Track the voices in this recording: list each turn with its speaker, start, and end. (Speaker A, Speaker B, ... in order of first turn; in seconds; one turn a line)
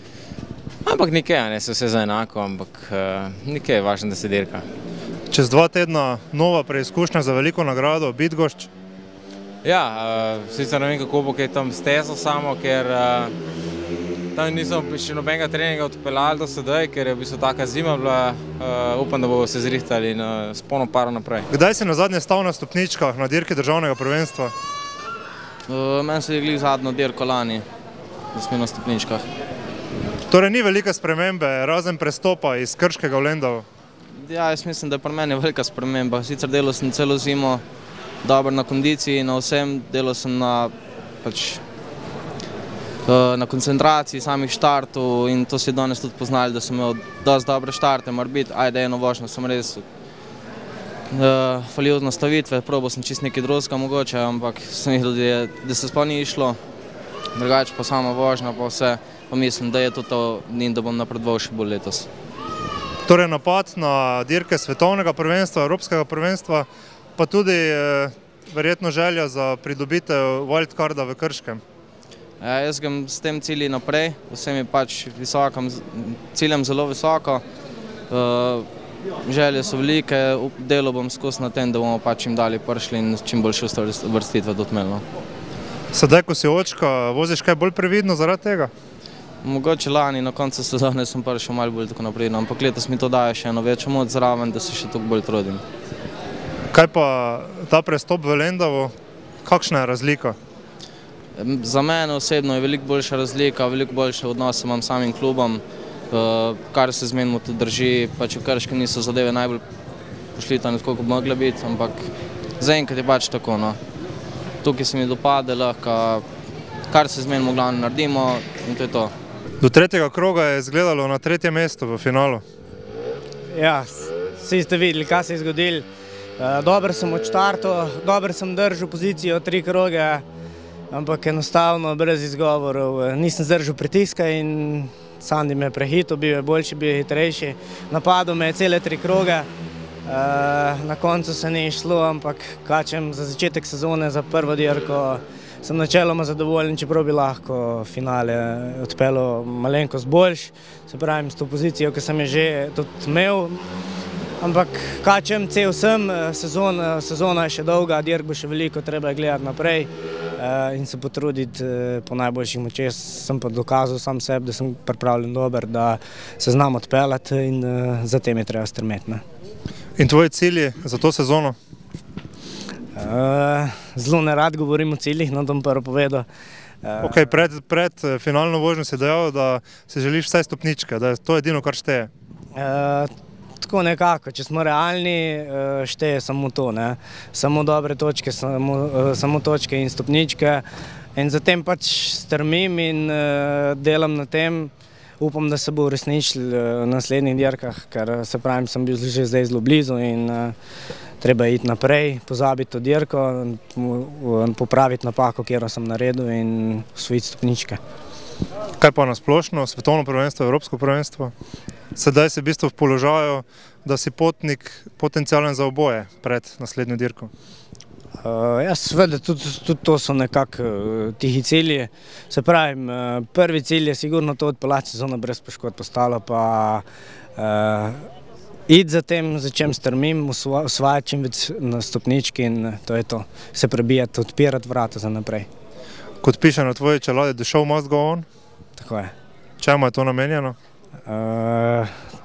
Speaker A: 0.8-4.7
Speaker B: 5.3-8.7
Speaker A: 9.6-13.3
Speaker A: 14.3-21.5
Speaker B: 21.5-24.5
Speaker C: 25.7-27.6
Speaker C: 28.3-29.2
Speaker B: 30.3-33.6
Speaker C: 34.2-37.6
Speaker C: 38.2-41.6
Speaker C: 43.1-49.8
Speaker C: 51.1-56.6
Speaker C: 57.3-62.1
Speaker B: 63.0-71.6
Speaker C: 72.4-77.4
Speaker C: 78.1-78.7
Speaker C: 79.2-85.0
Speaker B: 85.9-88.7
Speaker C: 89.4-95.6
Speaker B: 96.7-100.4
Speaker C: 101.4-109.6
Speaker C: 110.3-112.1
Speaker C: 112.6-113.8
Speaker C: 114.6-116.2
Speaker C: 116.9-119.1
Speaker B: 119.6-122.4
Speaker D: 123.5-125.8
Speaker D: 126.4-130.2
Speaker D: 130.9-139.5
Speaker D: 140.0-153.6
Speaker D: 154.4-169.2
Speaker B: 170.0-171.6
Speaker D: 172.9-176.3
Speaker D: 176.8-177.3
Speaker B: 177.0-182.1
Speaker D: 182.5-200.5
Speaker D: 201.2-207.8
Speaker B: 208.8-211.3
Speaker B: 211.9-217.3
Speaker D: 218.2-226.8
Speaker D: 227.3-228.1
Speaker D: 228.7-235.5
Speaker B: 236.2-238.2
Speaker D: 238.8-239.1
Speaker B: 239.6-240.6
Speaker D: 241.1-242.0